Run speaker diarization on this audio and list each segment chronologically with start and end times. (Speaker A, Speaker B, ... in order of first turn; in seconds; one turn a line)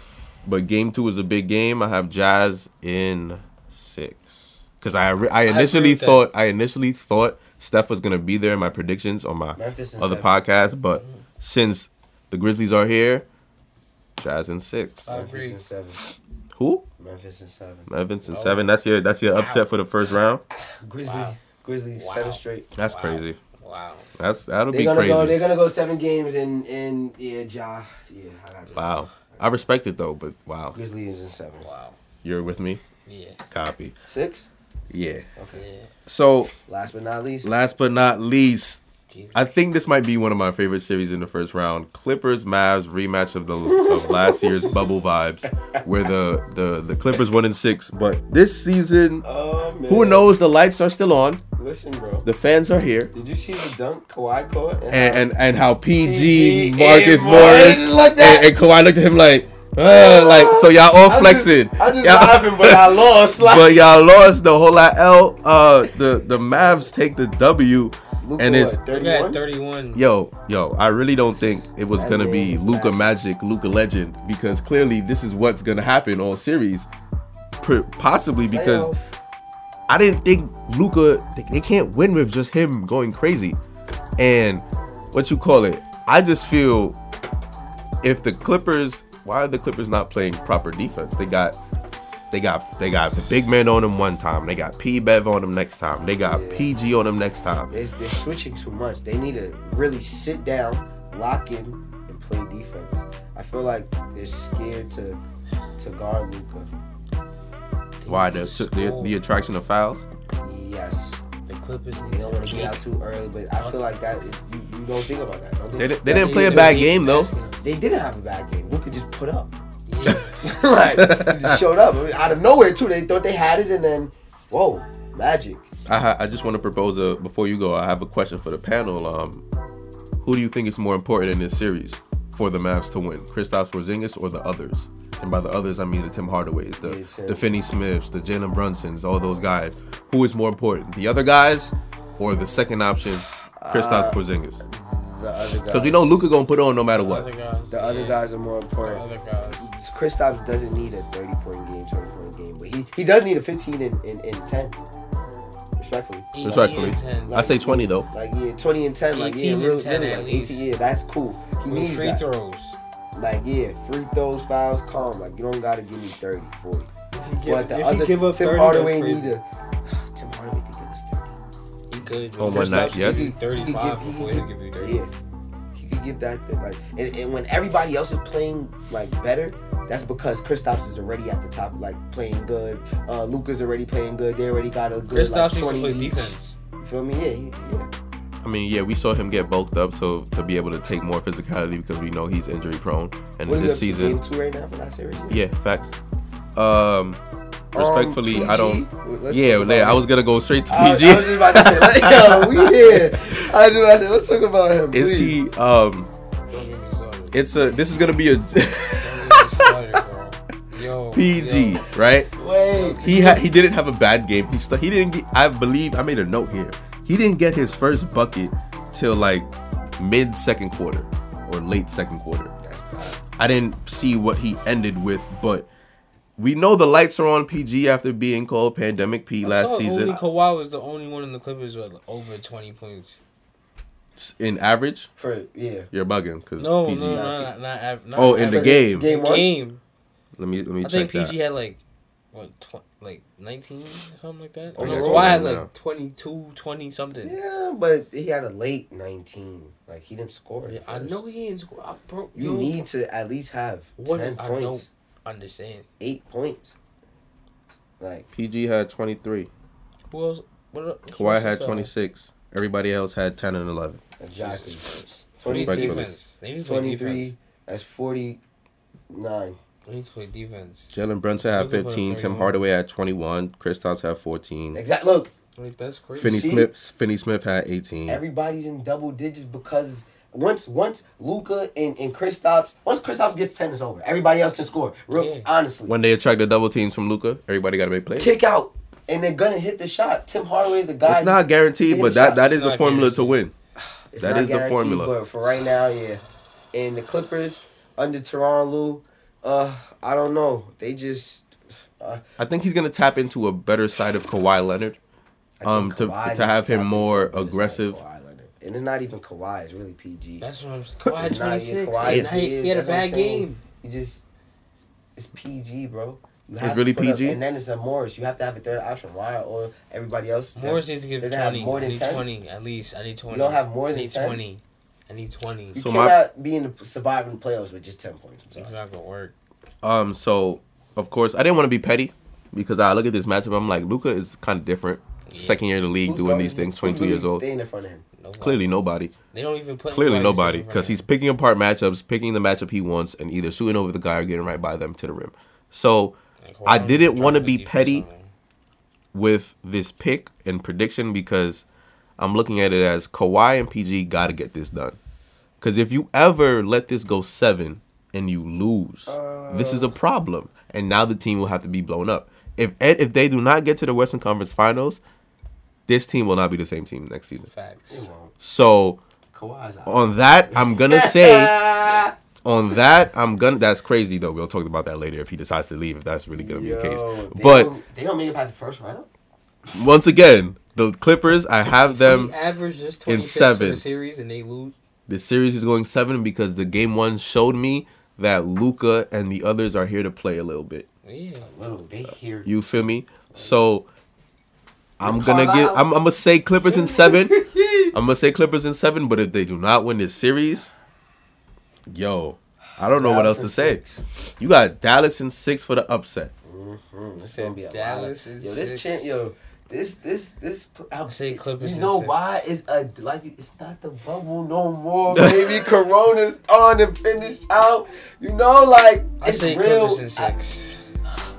Speaker A: 0.5-13.3
Speaker B: 5.5-6.3
Speaker C: 9.6-10.3
Speaker B: 10.9-11.2
Speaker A: 14.2-15.1
Speaker B: 15.1-15.6
Speaker C: 15.1-16.0
Speaker A: 16.0-16.9
Speaker C: 17.0-17.9
Speaker A: 17.9-20.4
Speaker B: 18.3-18.7
Speaker B: 19.3-19.7
Speaker C: 20.5-22.7
Speaker B: 21.0-21.4
Speaker B: 21.9-24.1
Speaker A: 22.8-23.4
Speaker A: 24.2-25.4
Speaker C: 24.7-29.5
Speaker A: 28.7-30.8
Speaker C: 30.7-31.7
Speaker B: 31.6-32.0
Speaker A: 32.2-32.8
Speaker B: 33.0-33.4
Speaker A: 33.5-33.9
Speaker C: 34.0-34.5
Speaker A: 34.9-35.3
Speaker C: 35.4-35.6
Speaker B: 35.5-35.9
Speaker A: 36.0-36.5
Speaker C: 36.7-37.5
Speaker A: 37.4-38.8
Speaker B: 39.1-39.4
Speaker A: 39.3-49.2
Speaker C: 43.6-44.8
Speaker C: 49.2-50.3
Speaker A: 49.9-51.4
Speaker C: 51.6-52.3
Speaker A: 52.2-53.1
Speaker C: 53.1-55.3
Speaker A: 54.9-68.8
Speaker C: 56.0-58.5
Speaker C: 59.8-63.9
Speaker C: 68.2-69.4
Speaker B: 68.9-70.0
Speaker A: 70.0-76.9
Speaker C: 71.9-73.3
Speaker A: 77.6-78.9
Speaker C: 78.5-79.1
Speaker A: 79.9-83.6
Speaker A: 84.2-87.0
Speaker A: 88.0-91.6
Speaker A: 92.3-97.7
Speaker C: 96.2-96.7
Speaker C: 97.7-105.2
Speaker C: 105.8-106.7
Speaker B: 108.0-109.2
Speaker A: 108.1-110.0
Speaker C: 110.4-111.2
Speaker B: 111.5-112.8
Speaker C: 112.1-116.9
Speaker B: 113.6-113.9
Speaker A: 115.8-117.3
Speaker B: 116.0-117.7
Speaker C: 117.6-119.5
Speaker B: 119.9-120.3
Speaker A: 120.0-121.6
Speaker C: 120.4-125.7
Speaker A: 125.9-129.4
Speaker A: 130.2-144.6
Speaker C: 136.8-137.5
Speaker C: 143.6-146.2
Speaker A: 145.7-147.3
Speaker B: 146.9-148.3
Speaker C: 147.7-149.1
Speaker B: 148.8-149.7
Speaker C: 149.6-154.8
Speaker C: 155.8-156.3
Speaker B: 156.3-157.4
Speaker A: 156.4-158.1
Speaker C: 157.3-162.2
Speaker B: 159.1-160.6
Speaker B: 161.7-162.8
Speaker C: 163.1-166.9
Speaker B: 167.1-169.4
Speaker C: 167.4-171.3
Speaker B: 171.9-175.0
Speaker C: 172.0-175.1
Speaker A: 172.4-173.3
Speaker C: 175.7-187.9
Speaker B: 185.1-186.6
Speaker A: 188.4-194.2
Speaker C: 193.4-195.4
Speaker A: 195.3-195.9
Speaker A: 196.6-197.2
Speaker A: 197.7-203.4
Speaker C: 197.7-200.1
Speaker C: 200.7-205.4
Speaker A: 204.9-206.1
Speaker B: 206.5-207.4
Speaker A: 207.3-209.7
Speaker B: 209.0-211.9
Speaker A: 211.1-212.3
Speaker C: 212.1-213.4
Speaker A: 213.0-222.5
Speaker C: 222.6-223.2
Speaker A: 223.4-225.7
Speaker A: 226.4-230.2
Speaker B: 229.4-233.2
Speaker A: 234.2-235.1
Speaker C: 235.2-235.9
Speaker A: 235.9-237.3
Speaker B: 236.6-239.8
Speaker C: 237.0-237.5
Speaker A: 238.1-239.1
Speaker C: 238.3-239.5
Speaker A: 240.4-241.3
Speaker B: 240.8-241.8
Speaker B: 242.3-247.4
Speaker C: 244.8-245.5
Speaker A: 244.8-245.7
Speaker C: 247.2-251.2
Speaker B: 250.7-252.8
Speaker C: 252.3-254.9
Speaker B: 254.0-255.9
Speaker C: 256.0-256.8
Speaker C: 258.0-258.3
Speaker A: 258.3-259.5
Speaker B: 260.1-261.9
Speaker A: 261.1-264.0
Speaker C: 264.2-268.4
Speaker B: 264.4-267.3
Speaker A: 265.5-266.2
Speaker C: 269.1-269.6
Speaker B: 269.9-270.9
Speaker A: 270.9-274.8
Speaker B: 271.5-272.6
Speaker C: 274.7-275.3
Speaker B: 275.6-276.4
Speaker C: 276.2-276.9
Speaker A: 276.2-278.2
Speaker C: 278.1-285.9
Speaker B: 285.1-285.5
Speaker A: 285.9-288.4
Speaker C: 288.2-292.4
Speaker A: 291.1-293.5
Speaker B: 292.3-293.4
Speaker C: 294.1-296.2
Speaker A: 294.2-295.1
Speaker C: 296.7-302.2
Speaker A: 302.4-305.0
Speaker C: 305.6-310.5
Speaker A: 305.6-308.0
Speaker B: 310.4-313.6
Speaker C: 311.1-314.2
Speaker A: 312.0-312.3
Speaker C: 315.2-322.2
Speaker A: 316.6-317.4
Speaker B: 320.6-325.8
Speaker C: 323.3-324.4
Speaker C: 325.7-328.7
Speaker A: 325.8-326.2
Speaker B: 328.6-329.3
Speaker A: 329.8-337.4
Speaker B: 335.3-335.6
Speaker C: 336.1-338.1
Speaker B: 338.2-338.7
Speaker A: 338.4-339.1
Speaker B: 339.3-341.0
Speaker A: 339.9-348.1
Speaker B: 346.4-348.3
Speaker A: 349.1-351.6
Speaker A: 352.2-355.0
Speaker A: 355.6-365.0
Speaker C: 359.1-359.9
Speaker A: 365.9-367.5
Speaker B: 367.5-368.1
Speaker C: 367.9-368.3
Speaker A: 368.4-369.0
Speaker C: 369.3-372.1
Speaker A: 369.9-371.6
Speaker A: 372.4-377.7
Speaker C: 376.3-379.1
Speaker A: 379.7-382.3
Speaker B: 381.8-384.7
Speaker A: 383.1-383.8
Speaker A: 385.1-390.9
Speaker B: 391.0-391.5
Speaker C: 391.4-393.6
Speaker A: 392.4-393.9
Speaker A: 395.0-397.4
Speaker C: 395.0-395.9
Speaker C: 396.7-397.9
Speaker A: 397.9-400.7
Speaker A: 401.9-403.8
Speaker C: 402.9-404.0
Speaker A: 404.4-406.3
Speaker C: 406.4-420.3
Speaker B: 407.2-409.2
Speaker B: 411.1-412.4
Speaker A: 415.1-415.7
Speaker B: 419.2-420.8